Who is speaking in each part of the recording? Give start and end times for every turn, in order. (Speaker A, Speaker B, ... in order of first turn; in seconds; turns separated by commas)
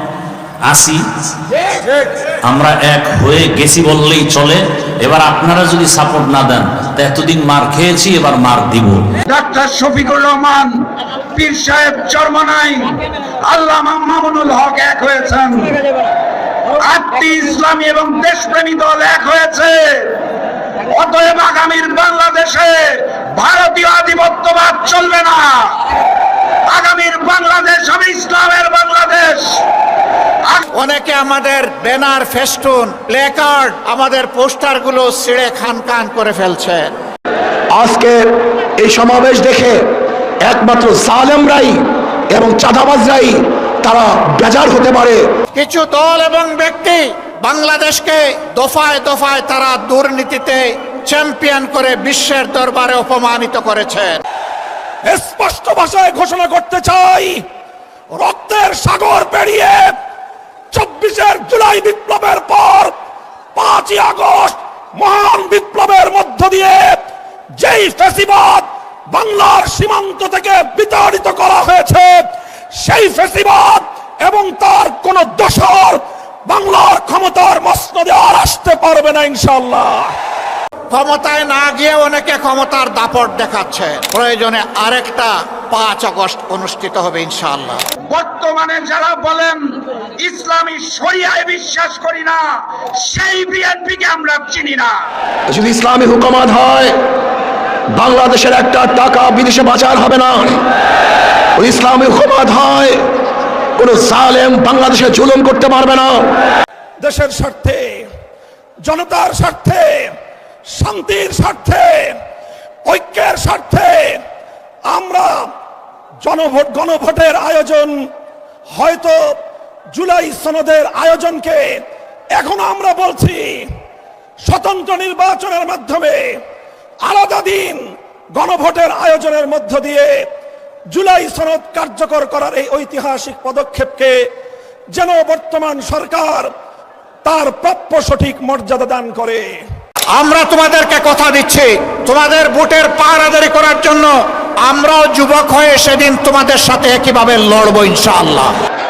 Speaker A: 0.6-1.0, Speaker A: 2.4-9.0, Speaker B: 9.3-10.7, Speaker B: 11.3-15.8, Speaker B: 16.8-20.2, Speaker B: 20.9-25.8, Speaker B: 26.7-29.6, Speaker C: 30.7-37.0, Speaker D: 37.7-38.2, Speaker D: 38.8-39.8, Speaker D: 40.4-41.8, Speaker D: 42.3-45.2, Speaker C: 45.5-54.2, Speaker E: 55.0-57.4, Speaker E: 58.1-59.9, Speaker E: 60.7-62.9, Speaker E: 63.5-66.9, Speaker E: 67.6-72.2, Speaker E: 72.7-80.1, Speaker C: 80.9-87.8, Speaker B: 88.1-89.6, Speaker B: 90.2-94.9, Speaker D: 95.5-96.9, Speaker D: 97.9-100.6, Speaker D: 101.5-103.0, Speaker D: 103.8-106.2, Speaker E: 107.0-108.0, Speaker E: 108.8-110.1, Speaker E: 110.7-112.2, Speaker E: 112.8-114.2, Speaker E: 114.8-115.5, Speaker E: 116.2-118.0, Speaker E: 118.7-119.3, Speaker E: 119.9-121.7, Speaker E: 122.3-123.6, Speaker E: 124.4-126.2, Speaker E: 127.0-127.8, Speaker E: 128.3-130.1, Speaker E: 130.9-134.2, Speaker E: 134.9-136.5, Speaker E: 137.2-139.6, Speaker C: 140.2-148.5